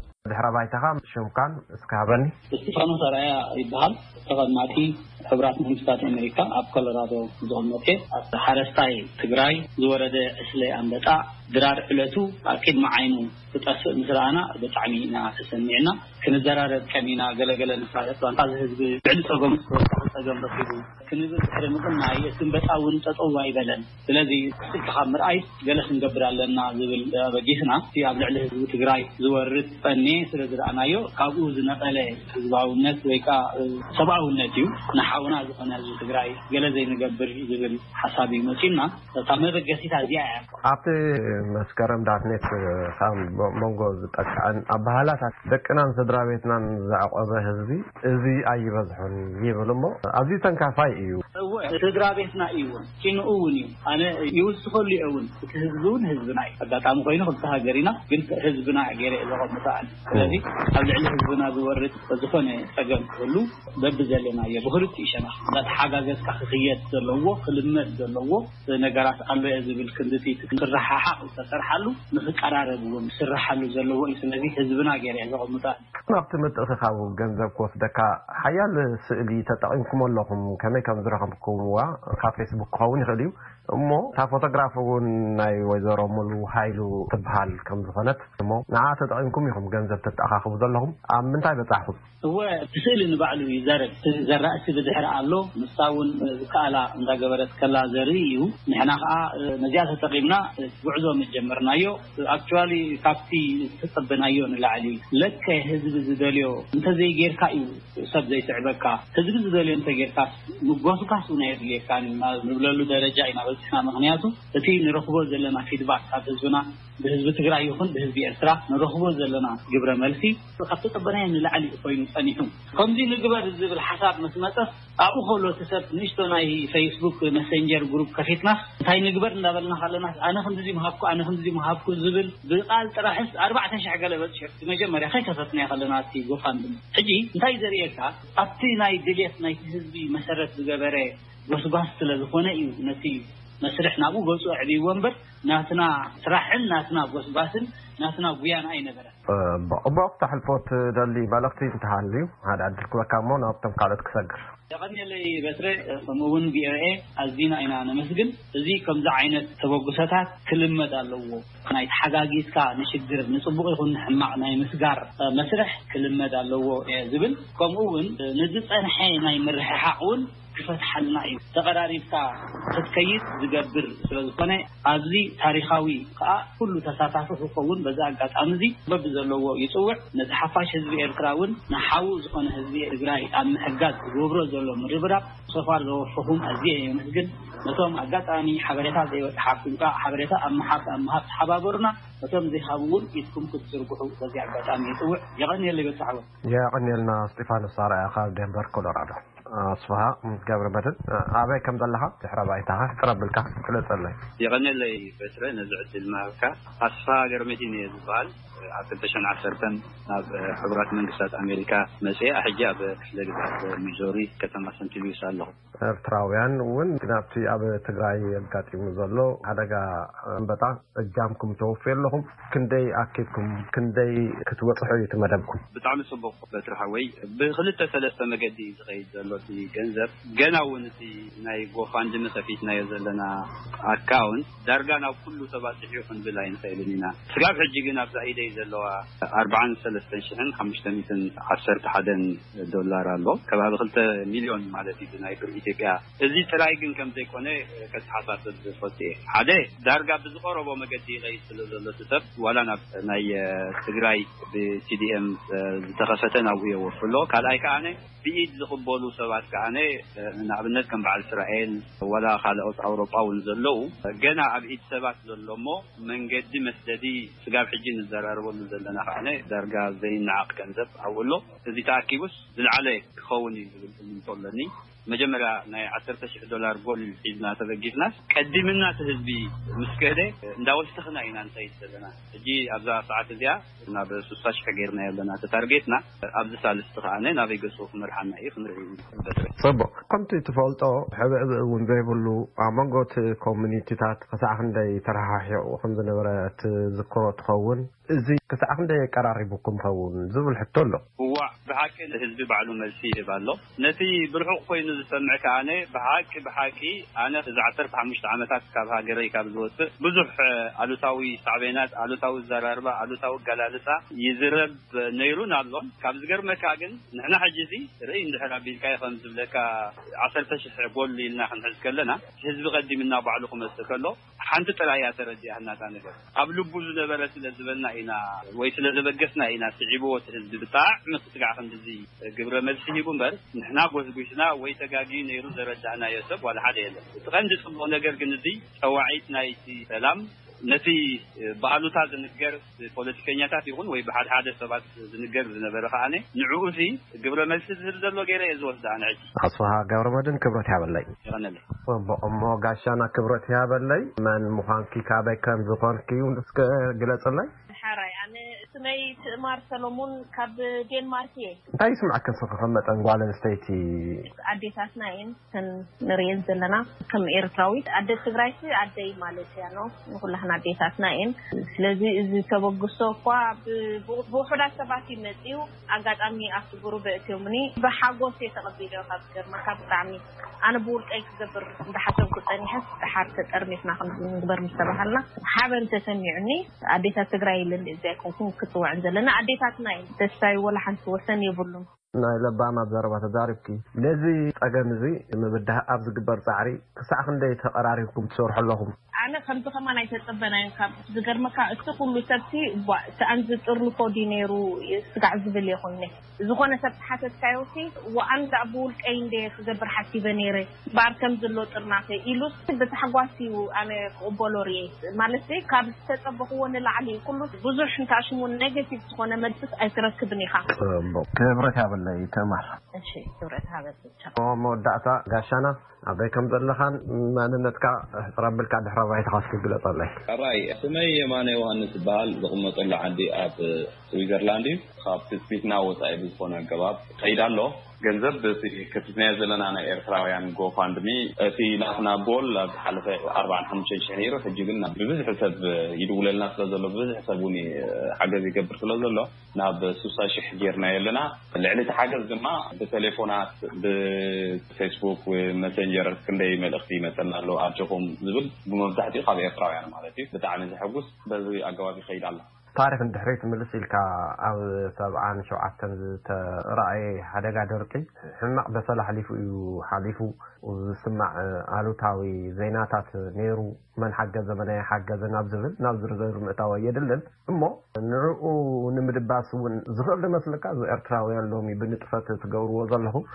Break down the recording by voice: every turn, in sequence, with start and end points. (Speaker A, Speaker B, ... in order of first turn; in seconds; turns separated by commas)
Speaker A: 0.2-2.3, Speaker B: 2.5-40.4, Speaker A: 40.6-51.2, Speaker B: 51.4-75.8, Speaker A: 76.1-92.0, Speaker B: 92.2-149.1, Speaker A: 149.3-154.4, Speaker B: 154.7-196.2, Speaker A: 196.5-204.2, Speaker C: 204.4-215.5, Speaker A: 215.8-225.6, Speaker C: 225.7-233.3, Speaker C: 233.9-289.5, Speaker A: 289.6-301.0, Speaker C: 301.2-319.6, Speaker C: 320.2-349.2, Speaker A: 349.4-351.1, Speaker C: 351.2-351.6, Speaker A: 351.9-357.5, Speaker D: 357.8-361.6, Speaker A: 361.8-364.3, Speaker D: 364.4-391.9, Speaker A: 392.2-398.9, Speaker D: 399.2-420.7, Speaker A: 420.8-422.7, Speaker D: 422.9-424.3, Speaker A: 424.4-430.2, Speaker E: 430.3-462.5, Speaker A: 462.8-483.2